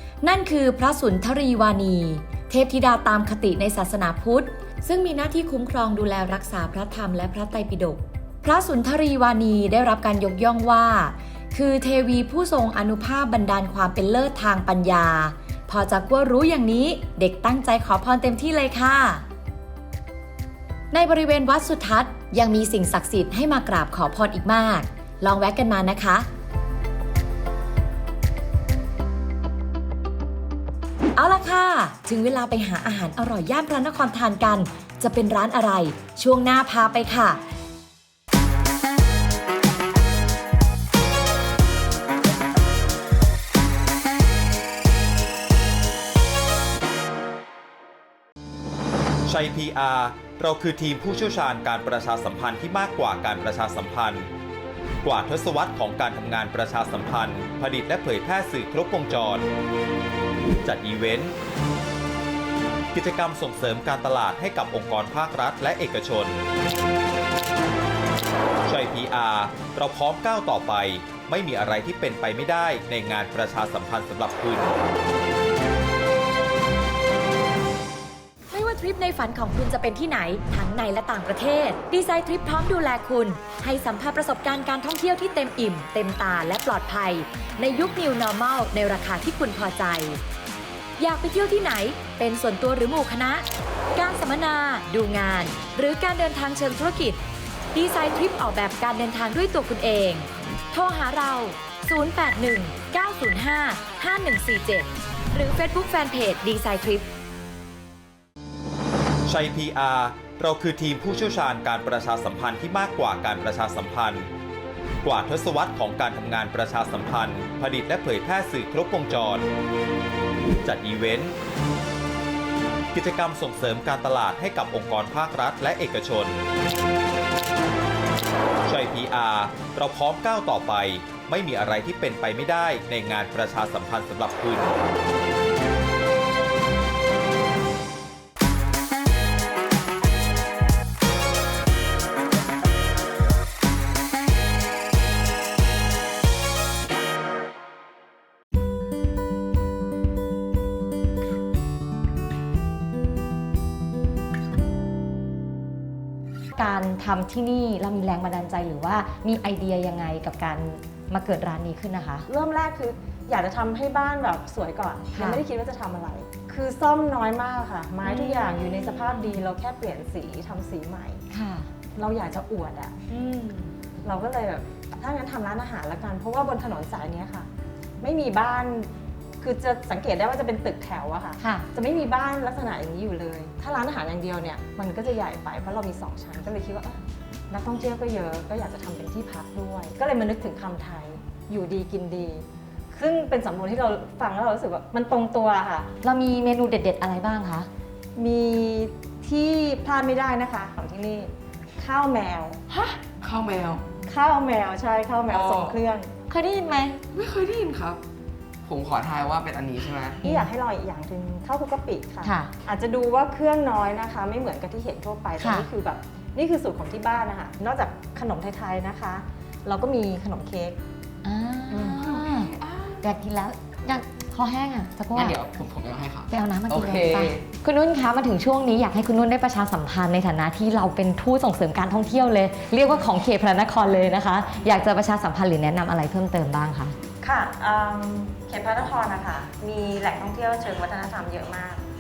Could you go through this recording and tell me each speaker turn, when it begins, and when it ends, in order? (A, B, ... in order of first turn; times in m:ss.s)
0:00.2-0:19.2 A
0:20.9-0:26.3 A
0:31.2-0:37.4 A
0:49.2-0:54.3 B
0:55.0-0:59.5 B
1:00.6-1:01.4 B
1:02.9-1:06.4 B
1:08.7-1:14.8 B
1:18.5-1:30.2 A
1:31.0-1:37.2 A
1:37.7-1:47.1 A
1:49.2-1:54.3 B
1:55.0-1:59.5 B
2:00.6-2:01.4 B
2:02.9-2:06.4 B
2:08.7-2:14.8 B
2:36.6-2:42.2 C
2:42.3-2:51.2 D
2:45.1-2:45.4 C
2:48.0-2:48.5 C
2:51.3-2:51.7 C
2:51.9-2:57.5 D
2:58.0-3:15.9 D
3:01.4-3:01.7 C
3:16.0-3:17.7 C
3:18.2-3:23.0 D
3:23.2-3:23.8 E
3:24.1-3:26.1 D
3:25.3-3:25.8 E
3:26.3-3:27.0 C
3:27.1-3:28.0 E
3:28.6-3:30.2 E
3:30.2-3:40.8 D
3:32.2-3:32.5 C
3:35.4-3:35.7 C
3:41.2-3:45.4 C
3:41.7-3:42.0 D
3:41.9-3:43.0 E
3:45.1-3:47.4 E
3:46.3-3:57.0 C
3:57.2-4:01.8 D